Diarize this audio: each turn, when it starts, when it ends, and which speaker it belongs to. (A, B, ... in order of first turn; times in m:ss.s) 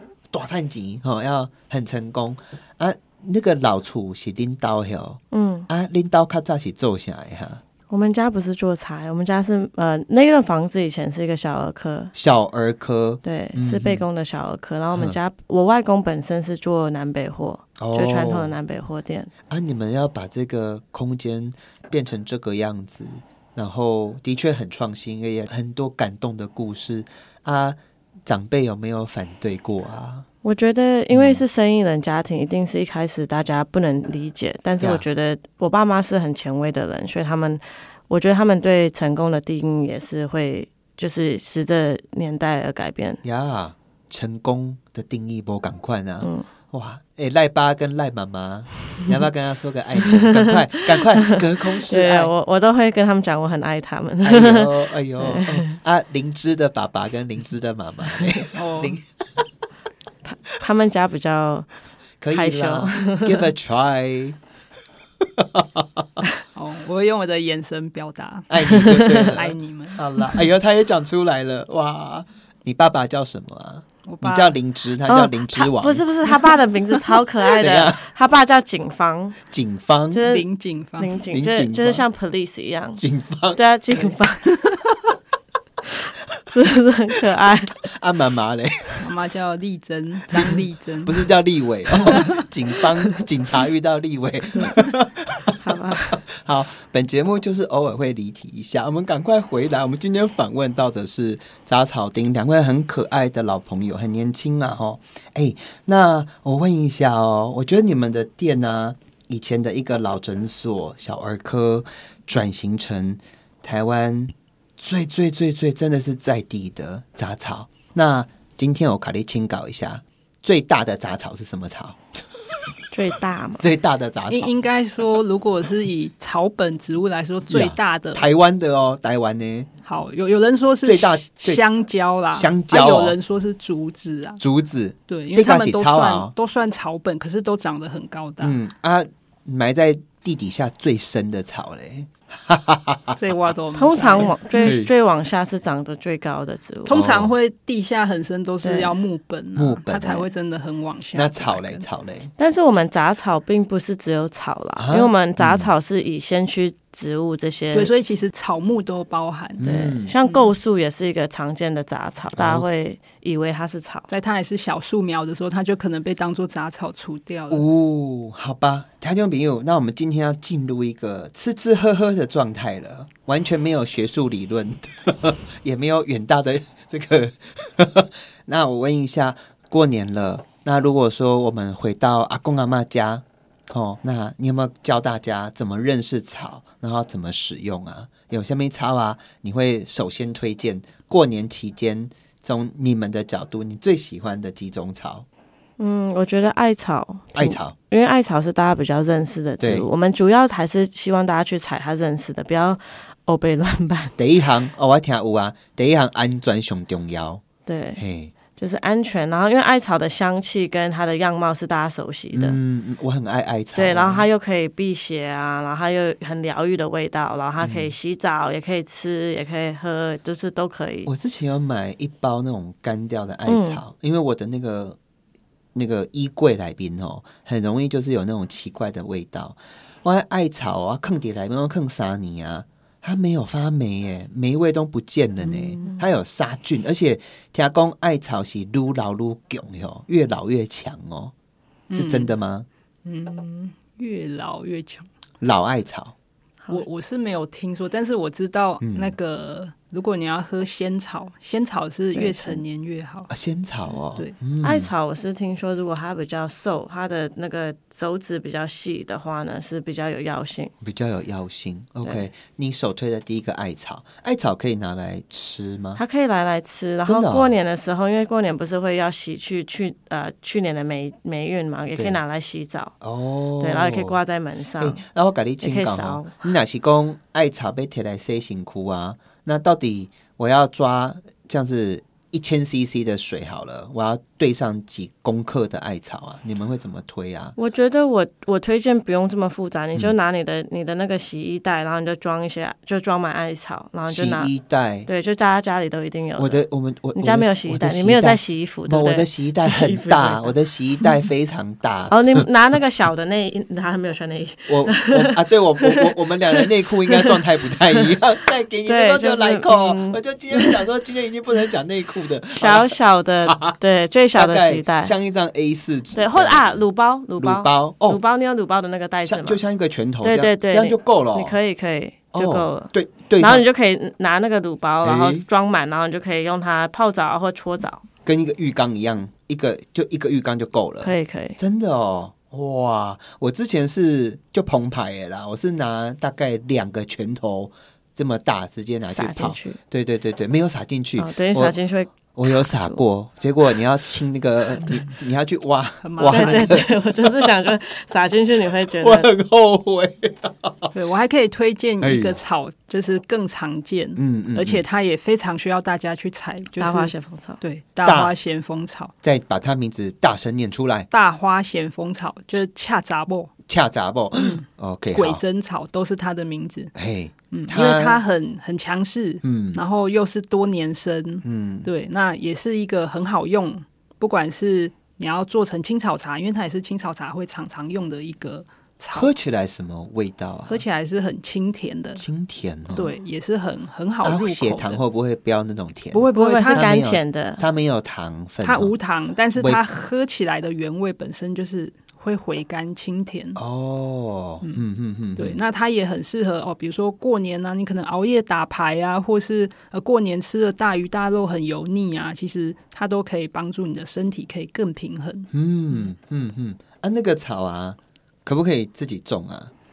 0:00.3-0:07.6 A
0:05.3-0:05.7 B
0:07.9-0:12.1 B
0:12.1-0:14.0 A
0:13.2-0:19.3 B
0:14.9-0:15.2 A
0:17.8-0:18.5 A
0:19.5-0:30.2 A
0:30.4-0:43.2 B
0:31.1-0:31.4 A
0:43.2-0:52.3 A
0:50.0-0:50.5 B
0:51.8-0:55.7 B
0:54.2-0:59.4 A
0:58.5-0:59.0 C
1:00.4-1:01.7 B
1:02.2-1:04.4 A
1:02.3-1:03.5 B
1:05.2-1:06.1 A
1:06.5-1:10.0 C
1:08.5-1:16.0 A
1:08.8-1:09.1 B
1:14.0-1:14.5 C
1:15.1-1:19.4 B
1:17.5-1:18.0 A
1:19.5-1:20.2 A
1:20.1-1:20.5 B
1:20.2-1:21.2 C
1:21.0-1:23.0 B
1:21.3-1:22.0 A
1:23.0-1:23.6 A
1:23.5-1:24.7 B
1:26.5-1:27.9 B
1:27.8-1:29.0 A
1:29.0-1:31.2 C
1:30.3-2:02.2 A
1:31.9-1:32.4 C
1:35.6-1:36.2 B
2:02.9-2:03.7 B
2:03.6-2:04.5 A
2:04.3-2:08.2 C
2:07.5-2:09.7 A
2:09.8-2:14.4 C
2:10.8-2:11.6 A
2:12.3-2:13.2 A
2:14.4-2:16.3 A
2:15.1-2:18.6 C
2:18.4-2:23.2 A
2:23.2-2:24.7 C
2:23.7-2:27.0 B
2:24.6-2:24.9 A
2:26.9-2:31.8 C
2:26.9-2:27.3 A
2:28.6-2:29.0 B
2:29.6-2:30.3 A
2:31.1-2:32.3 A
2:32.4-2:37.9 B
2:34.8-2:35.7 A
2:37.7-2:39.7 C
2:39.6-2:40.1 A
2:39.6-2:44.1 B
2:40.2-2:40.5 C
2:42.4-2:42.6 A
2:44.1-2:47.6 C
2:47.5-3:15.2 A
3:15.8-3:24.2 B
3:17.3-3:17.7 A
3:19.6-3:19.9 A
3:24.2-3:27.4 A
3:27.6-3:28.0 B
3:28.0-3:28.3 A
3:28.6-3:32.6 B
3:32.3-3:34.2 A
3:33.8-3:41.1 B
3:37.6-3:37.9 A
3:41.0-3:45.0 A
3:43.4-3:43.8 B
3:45.7-4:01.3 A
3:55.4-3:56.0 C
4:01.9-4:02.3 C
4:01.9-4:02.7 A
4:03.0-4:05.1 C
4:05.4-4:06.1 A
4:06.7-4:13.3 C
4:08.8-4:09.1 A
4:12.1-4:12.6 B
4:13.3-4:14.9 A
4:14.6-4:20.7 B
4:20.8-4:26.0 A
4:26.0-4:32.9 B
4:27.0-4:27.5 A
4:33.0-4:34.2 A
4:33.6-4:35.0 B
4:34.8-4:47.5 A
4:35.6-4:36.3 B
4:47.6-4:54.5 B
4:54.1-4:55.1 A
4:55.1-4:56.6 B
4:56.4-5:02.2 A
4:57.2-5:00.6 B
5:02.1-5:07.1 B
5:04.7-5:12.9 A
5:08.9-5:10.8 B
5:12.6-5:15.1 B
5:13.4-5:13.8 A
5:14.3-5:16.8 A
5:16.1-5:19.6 B
5:17.4-5:18.2 A
5:19.2-5:21.6 A
5:20.2-5:28.0 B
5:22.3-5:23.6 A
5:25.0-5:25.4 A
5:28.2-5:41.8 A
5:31.0-5:31.6 B
5:39.0-5:39.8 B
5:41.2-5:43.0 B
5:42.3-5:47.5 A
5:46.0-5:46.8 C
5:46.3-5:49.3 B
5:49.0-5:50.9 A
5:50.9-5:59.1 C
5:52.0-5:52.4 A
5:54.2-5:54.8 A
5:56.8-5:57.6 B
5:58.0-5:58.3 A
5:59.2-6:01.1 A
6:01.1-6:03.5 C
6:03.7-6:05.4 A
6:04.4-6:06.9 C
6:06.9-6:08.2 A
6:07.5-6:19.3 C
6:09.4-6:09.8 A
6:11.4-6:11.9 A
6:19.1-6:20.8 A
6:20.7-6:22.2 C
6:22.2-6:23.1 A
6:22.9-6:25.0 C
6:24.2-6:28.9 A
6:26.1-6:26.9 C
6:26.3-6:27.6 B
6:28.6-6:33.6 C
6:29.6-6:29.8 A
6:33.6-6:35.6 A
6:35.4-6:45.5 C
6:45.5-6:49.7 A